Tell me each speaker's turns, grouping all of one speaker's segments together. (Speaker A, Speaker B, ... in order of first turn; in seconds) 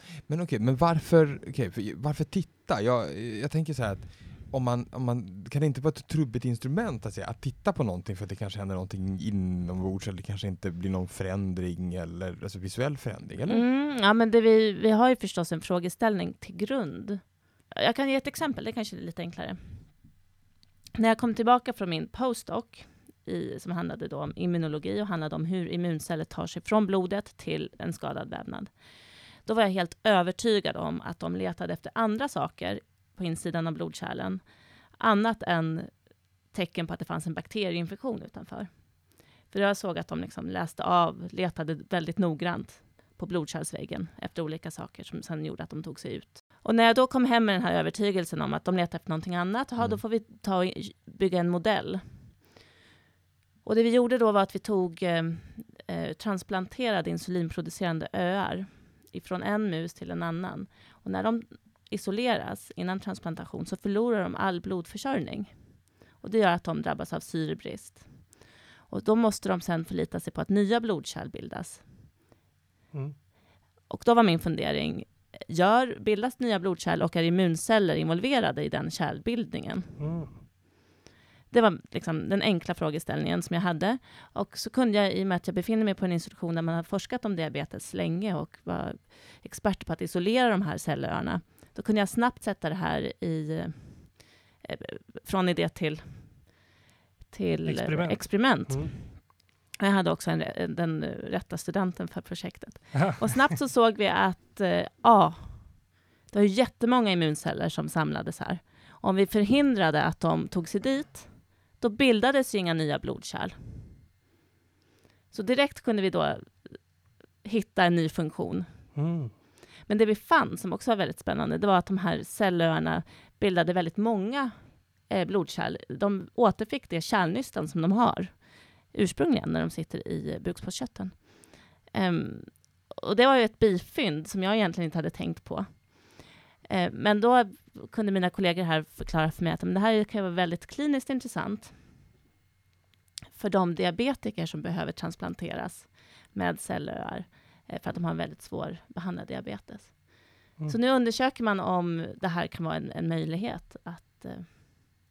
Speaker A: 0.3-13.6
Speaker B: 13.5-20.1, 20.9-28.8, 29.4-34.4, 35.0-36.0, 36.5-52.3, 53.6-71.9, 73.9-80.0, 81.5-96.6, 97.3-114.0, 115.3-116.8, 117.4-119.0, 119.8-141.8, 143.3-154.6
Speaker C: 72.9-73.2, 80.0-80.4, 97.7-99.0, 103.0-103.3, 119.0-119.3